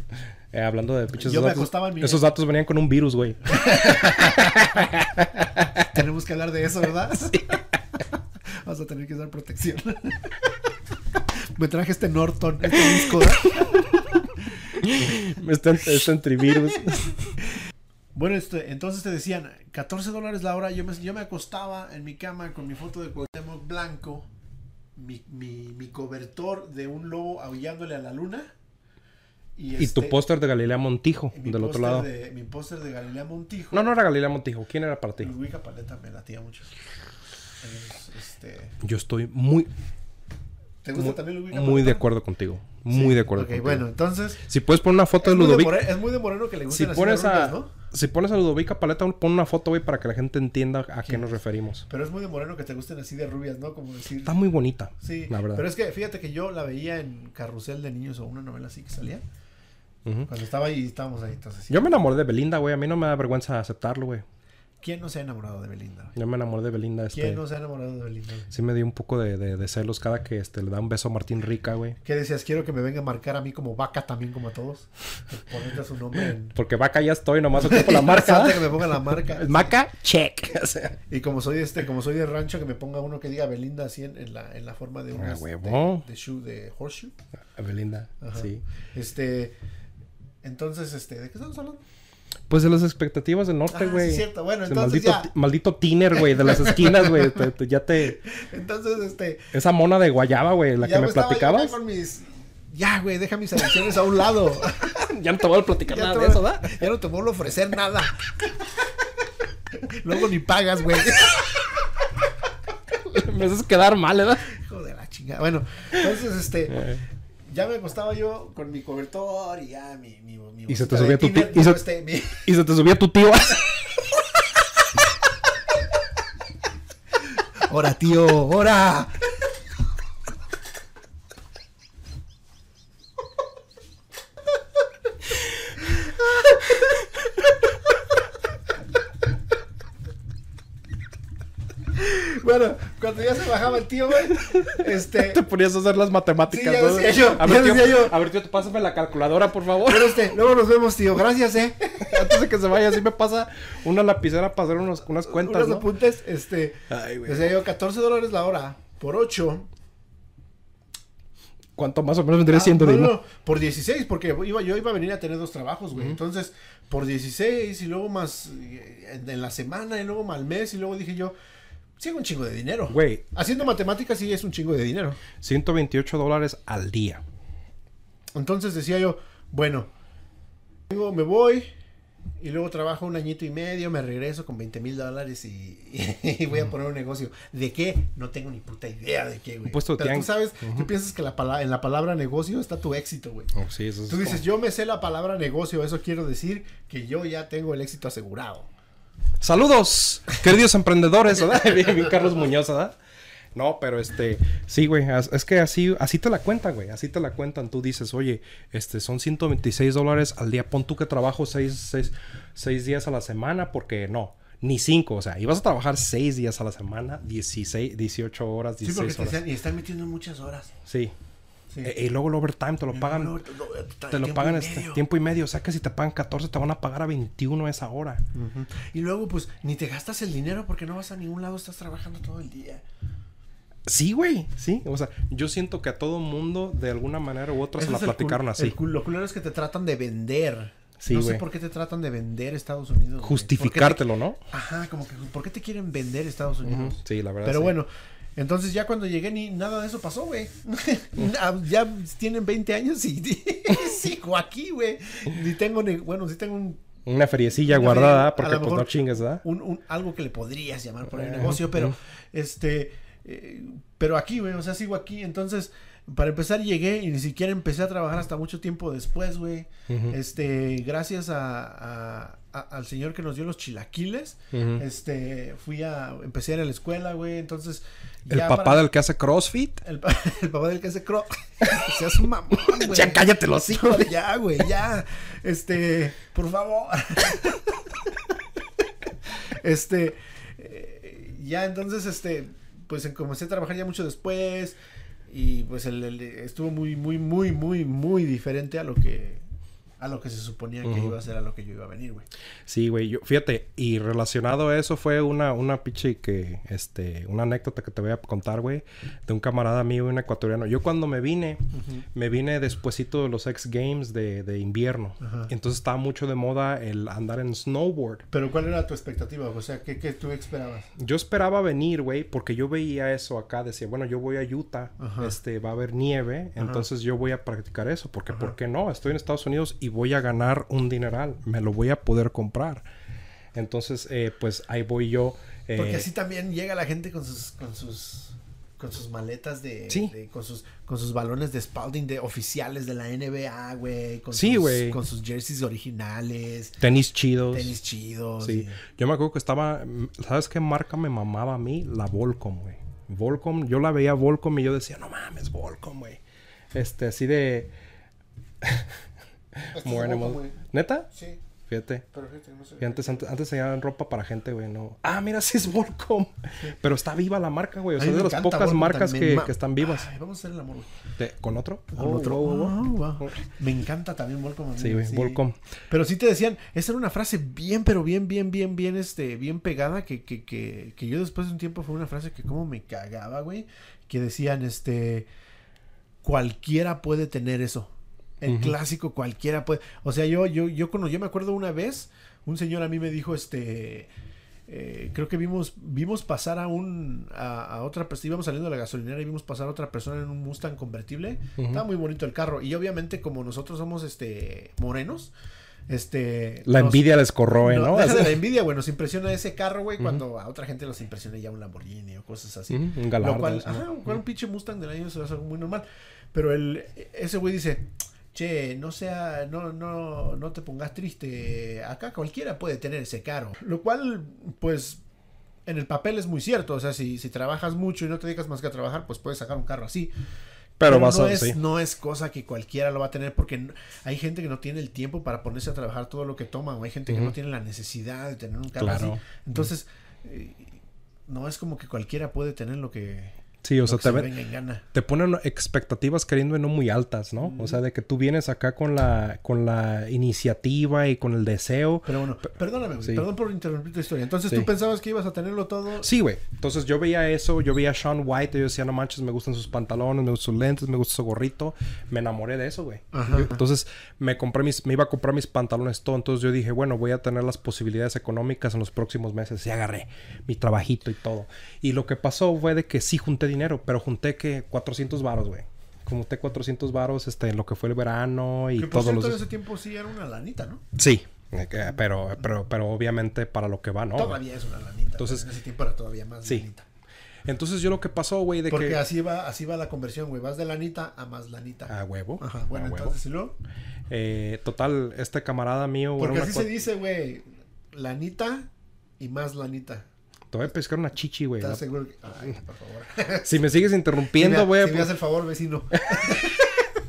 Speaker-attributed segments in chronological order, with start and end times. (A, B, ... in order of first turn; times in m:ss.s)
0:00.5-0:05.8 A
0:01.1-0:02.2 B
0:03.5-0:04.9 B
0:05.8-0:10.6 B
0:11.3-0:15.1 B
0:14.8-0:17.3 A
0:16.5-0:17.6 B
0:18.1-0:24.3 B
0:24.9-0:28.5 B
0:29.6-0:30.2 B
0:29.8-0:32.1 A
0:31.3-0:34.0 B
0:33.7-0:35.3 A
0:35.2-0:36.7 B
0:37.6-0:38.8 B
0:38.8-0:39.7 A
0:40.8-0:42.0 B
0:41.0-0:43.8 A
0:42.9-0:44.4 B
0:44.5-0:45.9 A
0:45.2-0:47.7 B
0:46.7-0:51.8 A
0:51.0-0:54.4 B
0:54.2-0:55.6 A
0:55.0-0:59.2 B
1:00.3-1:01.9 B
1:01.7-1:04.2 A
1:04.8-1:06.1 B
1:06.2-1:07.4 A
1:07.1-1:08.5 B
1:08.5-1:12.0 A
1:12.0-1:16.5 B
1:16.5-1:21.0 A
1:17.5-1:19.8 B
1:21.1-1:27.2 B
1:25.2-1:26.0 A
1:27.5-1:28.6 A
1:28.2-1:29.5 B
1:30.4-1:31.8 B
1:32.5-1:38.2 A
1:33.7-1:35.3 B
1:36.1-1:37.5 B
1:38.0-1:39.5 B
1:39.5-1:41.8 A
1:40.8-1:45.0 B
1:44.9-1:46.8 A
1:45.9-1:48.3 B
1:49.7-1:51.7 B
1:53.0-1:54.5 A
1:54.5-1:56.9 B
1:56.7-1:57.0 A
1:57.4-2:02.5 B
2:00.7-2:01.8 A
2:02.4-2:03.7 A
2:07.2-2:09.3 B
2:15.9-2:17.1 B
2:21.9-2:25.4 B
2:24.5-2:30.2 A
2:26.5-2:28.2 B
2:29.8-2:32.4 B
2:32.0-2:35.9 A
2:35.3-2:39.7 B
2:36.9-2:37.5 A
2:41.8-2:43.2 A
2:42.5-2:51.3 B
2:52.0-2:55.2 B
2:52.9-2:53.2 A
2:55.4-2:57.2 A
2:58.3-2:59.9 B
3:00.9-3:01.7 B
3:02.4-3:13.5 B
3:09.7-3:10.9 A
3:13.6-3:14.4 A
3:14.1-3:18.7 B
3:19.4-3:23.0 A
3:23.5-3:39.4 A
3:38.8-3:40.7 B
3:40.9-3:41.1 A
3:41.8-3:43.4 A
3:42.9-3:45.0 B
3:44.1-3:48.2 A
3:48.3-3:52.8 B
3:53.8-3:58.8 A
3:57.8-4:16.8 B
4:01.0-4:01.4 A
4:03.2-4:04.4 A
4:06.6-4:07.8 A
4:17.0-4:19.4 A
4:17.6-4:38.9 B
4:21.1-4:21.9 A
4:29.9-4:30.2 A
4:34.5-4:34.8 A
4:38.3-4:39.8 A
4:39.8-4:48.1 B
4:41.6-4:41.9 A
4:42.6-4:44.1 A
4:49.4-4:59.4 B
5:00.0-5:02.3 B
5:00.8-5:01.1 A
5:02.7-5:11.6 A
5:11.7-5:12.0 B
5:12.1-5:18.2 A
5:15.2-5:15.5 B
5:18.3-5:20.9 B
5:21.0-5:32.8 A
5:25.0-5:25.4 B
5:26.6-5:26.9 B
5:28.3-5:28.5 B
5:33.5-5:36.1 A
5:35.7-5:46.8 B
5:44.3-5:45.0 A
5:46.8-5:47.7 A
5:47.5-5:48.8 B
5:48.4-5:56.2 A
5:56.7-5:57.7 A
5:58.6-5:58.9 A
5:59.6-6:01.1 A
5:59.7-6:00.6 B
6:01.1-6:01.4 B
6:01.7-6:02.0 A
6:02.1-6:03.3 B
6:02.8-6:10.1 A
6:08.0-6:11.0 B
6:11.2-6:13.4 A
6:11.9-6:25.3 B
6:14.8-6:15.6 A
6:26.2-6:34.1 B
6:28.5-6:28.7 A
6:34.7-6:45.3 B
6:41.6-6:41.8 A
6:45.9-7:05.0 B
6:46.6-6:48.4 A
6:52.7-6:54.0 A
7:05.6-7:10.1 B
7:10.8-7:11.6 A
7:10.8-7:24.8 B
7:17.1-7:17.3 A
7:18.8-7:19.2 A
7:23.6-7:24.3 A
7:24.9-7:32.1 A
7:27.4-7:27.8 B
7:32.0-7:36.1 B
7:36.0-7:59.4 A
7:43.1-7:43.6 B
7:58.8-8:00.8 B
8:01.0-8:04.4 A
8:04.1-8:06.8 B
8:05.2-8:05.4 A
8:07.4-8:09.0 A
8:08.7-8:13.6 B
8:11.9-8:13.2 A
8:14.1-8:16.8 A
8:16.2-8:20.1 B
8:20.5-8:21.8 A
8:21.6-8:23.6 B
8:23.4-8:25.1 A
8:24.3-8:27.0 B
8:26.0-8:26.4 A